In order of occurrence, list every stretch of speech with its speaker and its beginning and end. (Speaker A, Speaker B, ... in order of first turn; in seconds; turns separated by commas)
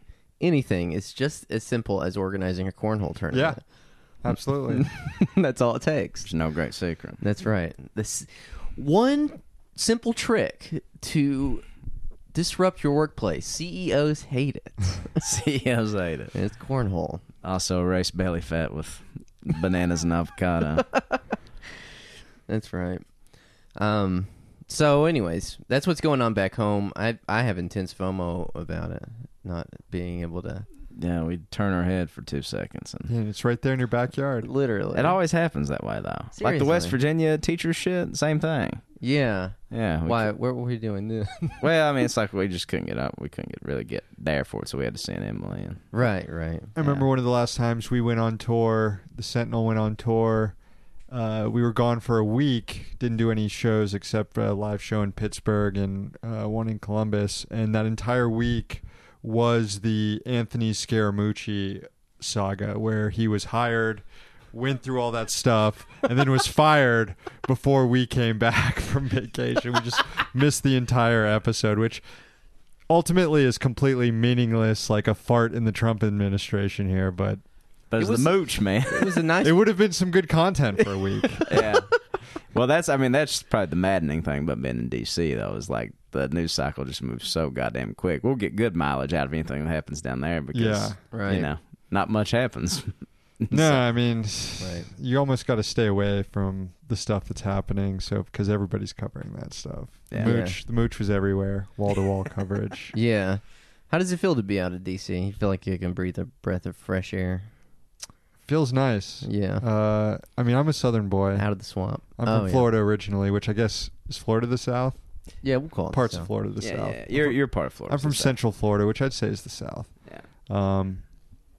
Speaker A: 0.4-3.6, Speaker B: 3.3-3.6, Speaker B: 4.2-4.9, Speaker A: 4.3-6.3, Speaker C: 6.2-7.2, Speaker A: 7.2-11.7, Speaker A: 12.3-15.2, Speaker C: 15.2-16.3, Speaker A: 16.3-17.2, Speaker C: 17.4-21.0, Speaker A: 22.5-23.0, Speaker A: 23.8-30.6, Speaker C: 30.9-33.1, Speaker B: 33.1-34.5, Speaker A: 34.4-35.2, Speaker C: 34.9-38.8, Speaker A: 36.3-37.0, Speaker A: 39.0-41.6, Speaker C: 39.7-40.3, Speaker C: 41.6-45.8, Speaker A: 45.9-47.0, Speaker B: 46.8-50.5, Speaker B: 51.1-72.0, Speaker B: 72.9-77.4, Speaker C: 77.9-79.2, Speaker A: 78.0-79.6, Speaker B: 79.4-81.6, Speaker A: 81.3-81.7, Speaker C: 81.5-81.9, Speaker C: 82.5-93.8, Speaker B: 90.5-91.0, Speaker A: 91.1-91.5, Speaker B: 93.5-102.9, Speaker A: 94.6-94.9, Speaker A: 100.2-100.6, Speaker A: 102.9-107.5, Speaker B: 108.4-111.5, Speaker A: 109.2-109.6, Speaker A: 111.3-112.7, Speaker B: 112.2-115.0, Speaker A: 115.4-116.3, Speaker B: 115.9-121.0, Speaker C: 116.6-118.3